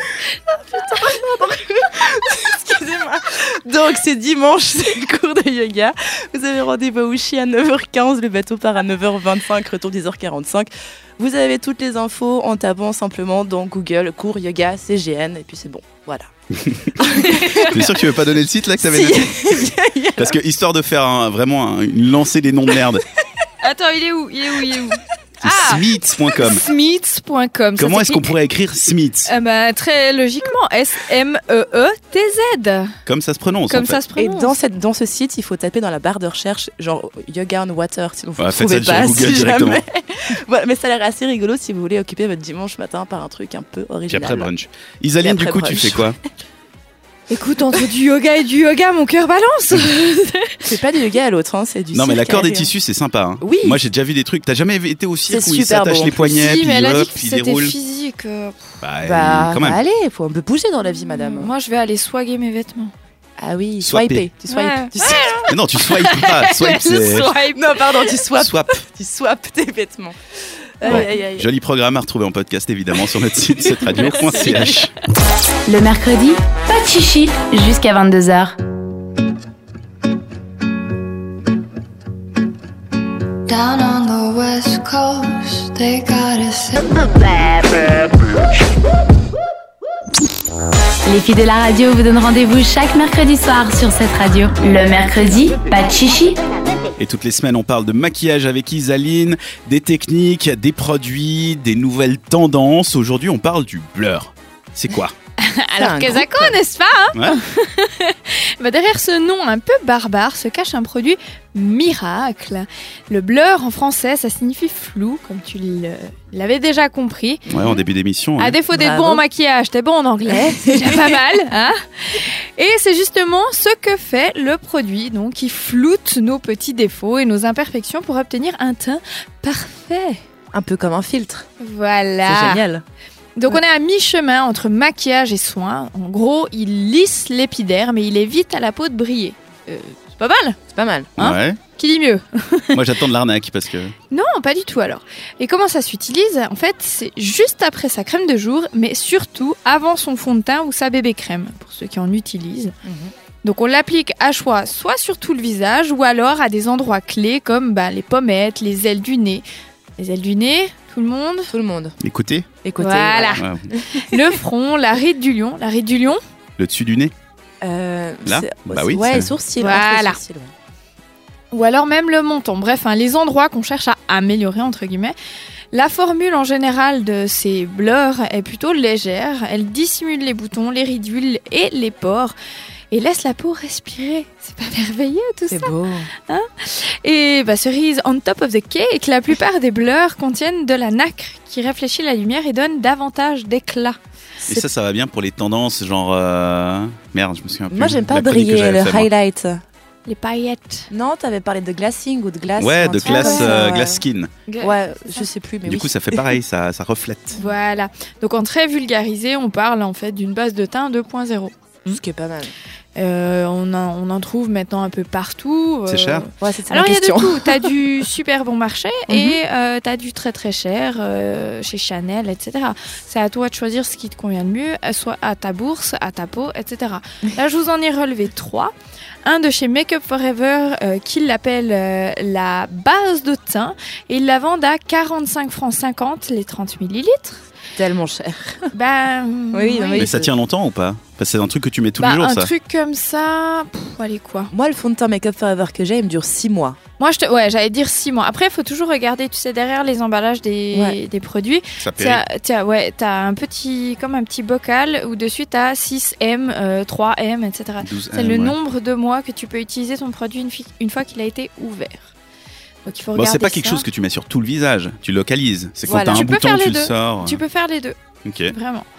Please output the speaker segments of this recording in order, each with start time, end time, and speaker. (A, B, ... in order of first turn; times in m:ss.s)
0:00.5-0:16.3 A
0:16.6-0:16.9 B
0:17.0-0:18.0 A
0:17.0-0:17.8 C
0:17.7-0:19.3 B
0:18.8-0:20.4 A
0:20.2-0:23.0 B
0:23.6-0:28.3 C
0:25.4-0:26.6 B
0:27.8-0:29.3 B
0:29.3-0:32.9 C
0:33.0-0:34.0 B
0:33.7-0:34.5 C
0:34.2-0:44.5 A
0:38.4-0:39.8 B
0:44.1-0:46.2 B
0:45.2-0:46.1 A
0:47.3-0:50.8 C
0:50.6-0:52.7 A
0:51.9-0:57.7 B
0:53.4-0:53.8 A
0:55.3-0:56.4 A
0:56.3-0:58.8 C
0:58.8-0:59.8 B
0:59.0-1:01.5 A
1:00.8-1:02.9 C
1:03.4-1:05.5 A
1:03.8-1:04.3 B
1:04.5-1:08.2 C
1:05.5-1:07.4 B
1:07.5-1:10.2 A
1:08.4-1:08.7 B
1:10.8-1:11.5 A
1:10.8-1:11.1 C
1:10.8-1:14.9 B
1:13.9-1:14.7 A
1:15.7-1:18.6 D
1:23.5-1:27.1 E
1:31.0-1:36.4 D
1:37.0-1:45.1 B
1:45.4-1:57.5 C
1:45.8-1:46.6 A
1:57.5-1:58.6 B
1:58.4-2:10.2 C
1:58.7-1:59.2 A
2:00.3-2:01.1 A
2:10.5-2:11.5 A
2:11.6-2:12.6 C
2:12.2-2:12.8 A
2:13.4-2:20.6 C
2:20.6-2:21.1 A
2:21.2-2:21.6 B
2:21.2-2:22.8 C
2:22.7-2:23.9 B
2:24.1-2:32.7 C
2:32.8-2:33.1 A
2:33.4-2:39.4 C
2:40.0-2:41.5 C
2:41.5-2:42.0 A
2:42.0-2:42.5 B
2:42.6-2:44.2 A
2:42.8-2:43.4 C
2:43.4-2:43.6 B
2:44.0-2:46.2 C
2:46.6-2:47.1 B
2:47.6-2:50.5 A
2:48.2-2:49.3 B
2:49.6-2:50.2 C
2:51.5-2:55.1 C
2:55.7-3:02.3 C
3:02.9-3:05.7 C
3:05.5-3:06.1 A
3:06.2-3:14.0 C
3:14.5-3:19.1 B
3:17.7-3:19.6 A
3:20.0-3:20.9 C
3:20.9-3:24.0 A
3:22.6-3:24.3 B
3:23.0-3:23.5 C
3:24.5-3:25.3 C
3:24.6-3:26.4 A
3:25.6-3:27.4 B
3:27.4-3:32.0 C
3:31.9-3:32.5 A
3:33.0-3:48.7 C
3:35.9-3:36.2 B
3:36.4-3:37.7 A
3:39.1-3:39.4 A
3:49.2-3:57.4 C
3:57.8-3:58.7 A
3:58.7-4:00.1 C
3:59.5-4:00.3 A
4:00.0-4:02.5 B
4:02.0-4:04.5 C
4:04.5-4:06.8 A
4:07.0-4:22.1 C
4:11.8-4:12.2 B
4:17.8-4:18.6 B
4:22.9-4:23.3 A
4:22.9-4:23.8 C
4:23.1-4:27.4 B
4:25.9-4:26.2 A
4:25.9-4:28.0 C
4:28.2-4:28.5 B
4:28.5-4:28.9 C